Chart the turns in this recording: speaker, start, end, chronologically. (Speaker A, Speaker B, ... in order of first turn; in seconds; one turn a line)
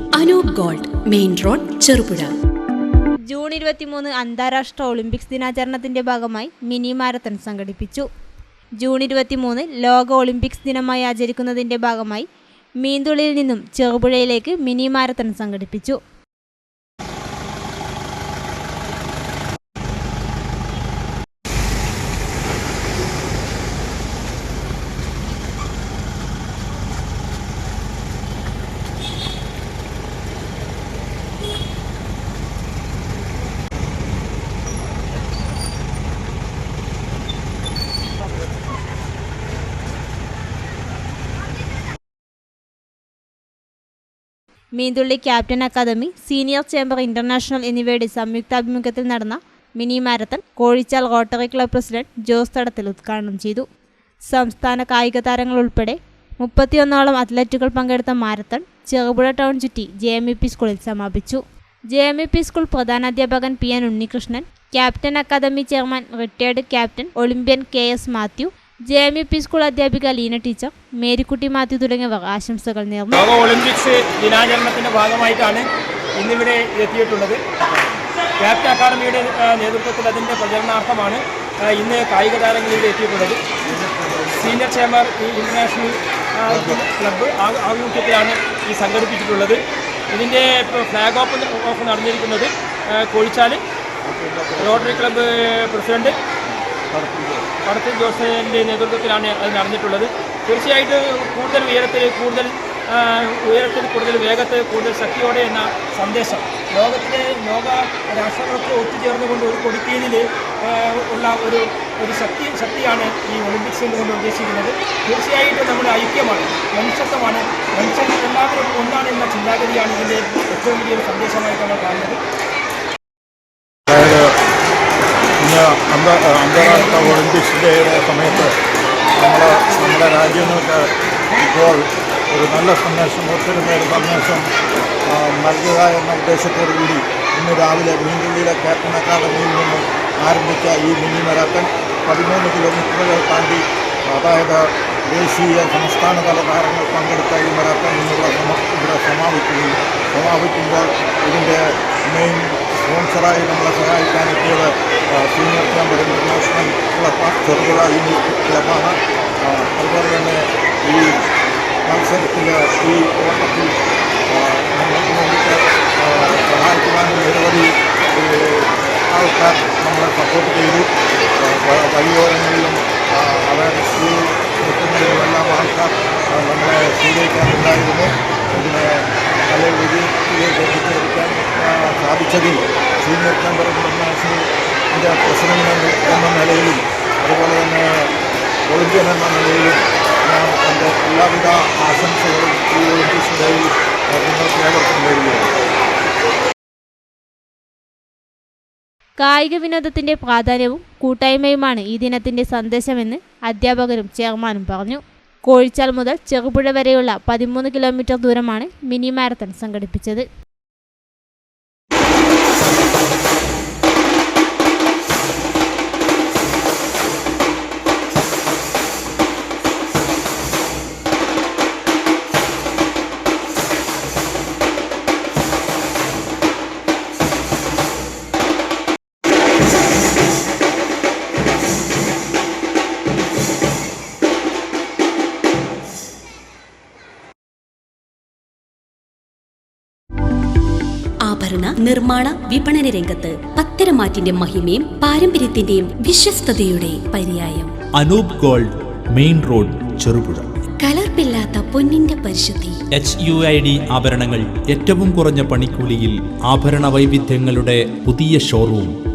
Speaker A: 0.2-2.3
Speaker B: 3.3-8.1
Speaker B: 8.8-12.2
Speaker B: 12.8-16.0
Speaker B: 44.8-53.6
Speaker B: 54.3-61.4
Speaker B: 61.9-73.2
Speaker C: 73.1-75.7
Speaker C: 76.2-77.4
Speaker C: 78.4-83.4
Speaker D: 83.6-84.5
Speaker C: 84.3-89.6
Speaker D: 86.5-86.8
Speaker C: 90.1-93.6
Speaker D: 94.0-95.1
Speaker C: 94.6-96.1
Speaker D: 96.5-97.5
Speaker C: 97.6-122.2
Speaker D: 123.9-124.3
Speaker D: 125.4-128.6
Speaker D: 129.2-134.5
Speaker D: 135.1-161.1
Speaker D: 161.8-163.8
Speaker D: 164.3-188.1
Speaker D: 188.7-195.5
Speaker B: 199.2-210.2
Speaker A: 241.2-247.7
Speaker E: 248.0-250.4
Speaker A: 250.8-252.8
Speaker E: 252.9-258.9